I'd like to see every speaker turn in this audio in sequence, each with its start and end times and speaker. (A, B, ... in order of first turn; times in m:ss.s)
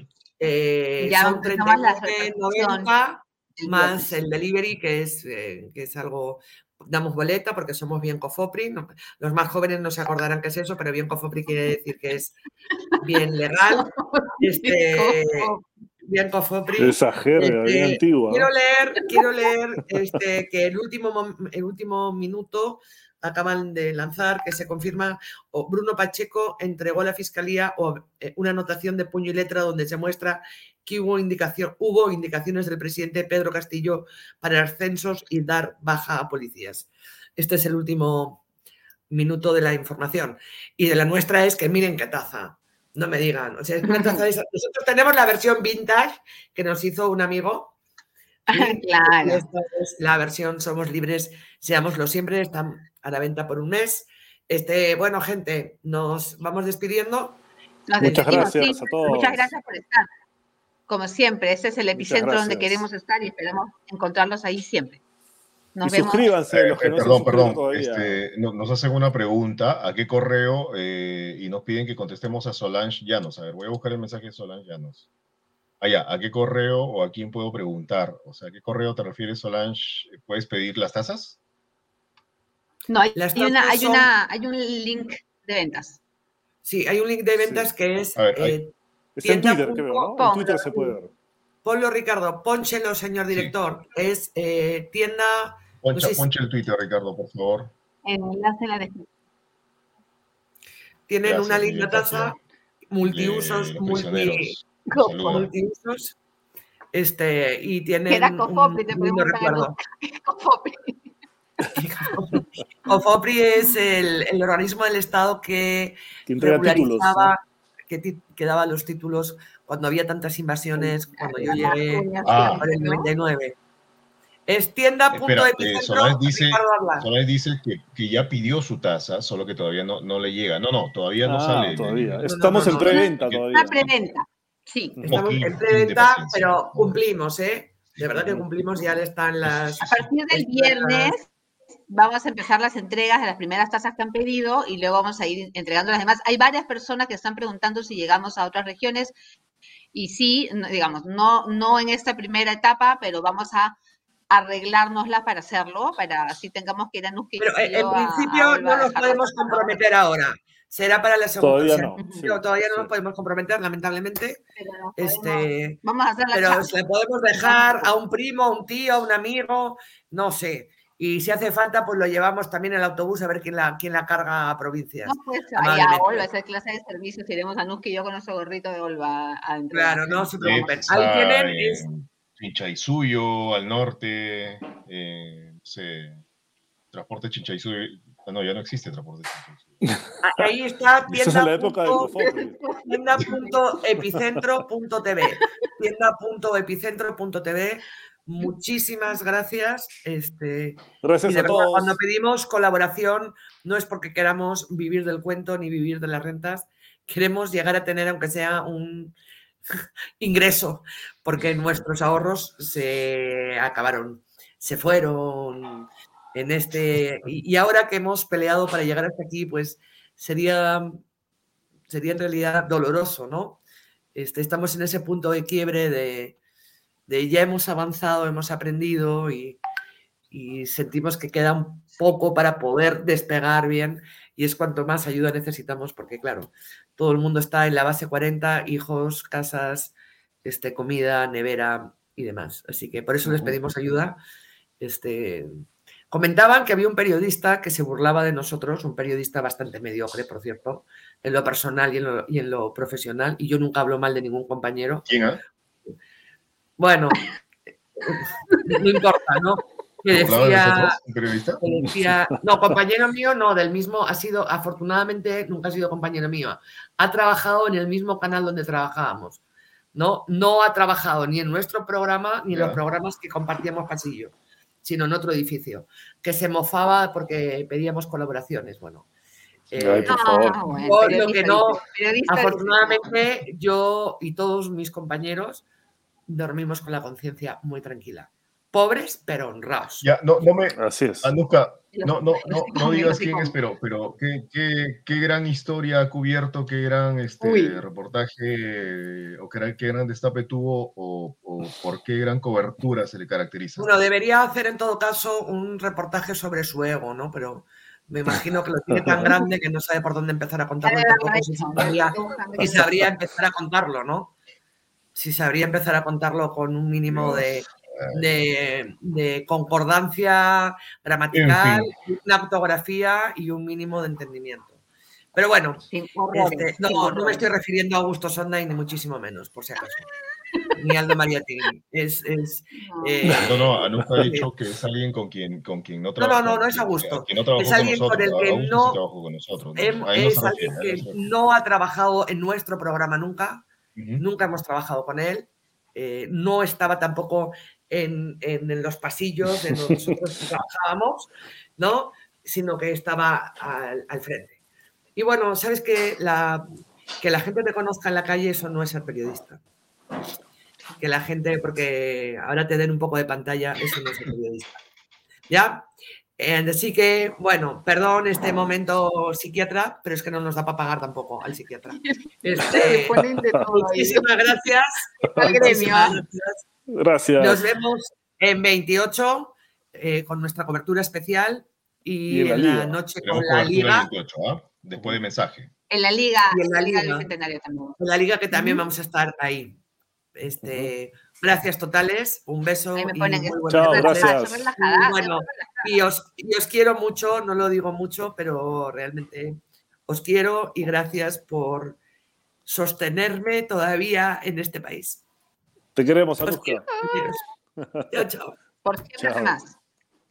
0:00.4-0:12.3 A
0:01.0-0:02.9 B
0:03.6-0:04.2 B
0:13.0-0:13.9 A
0:13.7-0:15.6 B
0:14.4-0:15.4 A
0:16.0-0:38.4 A
0:16.8-0:18.5 C
0:39.1-0:47.7 A
0:43.8-0:44.2 B
0:48.5-0:49.4 B
0:48.6-0:57.4 A
0:57.9-1:00.1 B
0:58.0-0:59.5 C
0:58.2-0:58.5 A
1:00.9-1:05.0 B
1:01.9-1:02.8 C
1:05.8-1:06.3 B
1:05.8-1:08.2 C
1:06.5-1:15.0 D
1:15.8-1:21.4 D
1:22.9-1:26.0 B
1:23.2-1:24.1 A
1:26.6-1:28.7 A
1:27.4-1:27.7 C
1:28.2-1:28.6 D
1:29.2-1:31.1 C
1:29.2-1:30.6 A
1:30.2-1:30.9 B
1:31.6-1:36.3 A
1:33.3-1:33.5 D
1:35.8-1:37.7 D
1:38.0-1:39.1 B
1:41.1-1:42.4 A
1:41.2-1:42.4 D
1:42.9-1:44.5 A
1:43.0-1:45.4 D
1:45.2-1:46.1 A
1:46.9-1:49.7 A
1:48.1-1:51.0 B
1:51.7-2:03.5 A
1:52.4-1:52.6 C
1:56.3-1:57.3 C
2:00.7-2:03.1 B
2:02.2-2:02.6 D
2:04.5-2:07.1 A
2:05.1-2:12.3 D
2:11.2-2:13.9 C
2:12.2-2:13.1 A
2:12.9-2:15.0 B
2:13.1-2:13.9 D
2:15.0-2:17.0 D
2:15.0-2:21.1 A
2:19.4-2:20.1 D
2:19.8-2:21.2 B
2:21.9-2:29.1 B
2:29.9-2:33.8 B
2:34.3-2:39.8 B
2:37.4-2:44.4 A
2:41.4-2:42.9 C
2:44.6-2:46.7 B
2:45.0-2:45.8 A
2:46.3-2:56.3 A
2:47.4-2:47.9 B
2:55.0-3:00.8 B
2:59.7-3:01.8 A
3:00.2-3:06.2 D
3:06.9-3:09.8 D
3:10.2-3:12.1 A
3:11.1-3:12.6 C
3:12.2-3:13.7 B
3:12.9-3:29.1 A
3:14.0-3:14.6 C
3:21.0-3:22.0 C
3:30.2-3:41.0 A
3:41.9-3:43.6 A
3:44.1-3:46.4 A
3:47.1-3:49.6 A
3:50.3-3:59.9 A
4:00.4-4:04.2 A
4:03.2-4:03.6 C
4:04.8-4:15.1 A
4:15.0-4:15.4 D
4:16.8-4:17.2 A
4:18.0-4:21.0 A
4:20.1-4:21.6 D
4:21.6-4:29.4 A
4:29.9-4:39.0 A
4:32.5-4:32.8 D
4:39.7-4:45.6 A
4:39.7-4:40.7 C
4:40.1-4:43.2 B
4:46.3-4:50.1 A
4:50.0-5:03.9 D
4:50.7-4:51.3 C
4:51.9-4:53.5 B
4:57.4-4:57.8 B
5:03.8-5:14.3 A
5:08.3-5:09.4 C
5:10.8-5:12.9 B
5:12.6-5:13.1 C
5:15.1-5:24.8 A
5:17.1-5:18.2 D
5:21.3-5:21.9 D
5:25.3-5:30.0 A
5:25.9-5:27.5 B
5:30.8-5:34.5 A
5:32.7-5:33.1 B
5:33.4-5:41.2 D
5:36.2-5:39.0 A
5:39.8-5:43.6 A
5:44.0-5:44.2 D
5:44.2-5:54.6 A
5:49.4-5:50.2 C
5:55.2-5:56.7 A
5:57.2-5:59.6 A
6:01.0-6:04.8 A
6:05.5-6:05.9 A
6:06.4-6:13.2 A
6:11.9-6:14.2 B
6:12.6-6:13.7 C
6:13.7-6:16.6 A
6:15.2-6:16.1 C
6:15.4-6:16.2 B
6:16.9-6:17.7 C
6:17.4-6:24.1 A
6:22.3-6:23.1 C
6:23.2-6:25.7 D
6:24.9-6:25.2 C
6:25.9-6:28.0 B
6:26.5-6:27.3 A
6:28.0-6:29.8 A
6:28.5-6:28.9 B
6:30.4-6:42.0 A
6:30.6-6:30.9 C
6:32.9-6:36.0 B
6:33.6-6:34.7 C
6:42.6-6:45.2 A
6:46.0-6:46.9 C
6:46.4-6:47.4 A
6:47.8-6:48.1 C
6:48.1-6:48.5 A
6:48.8-6:49.7 B
6:49.2-6:49.5 C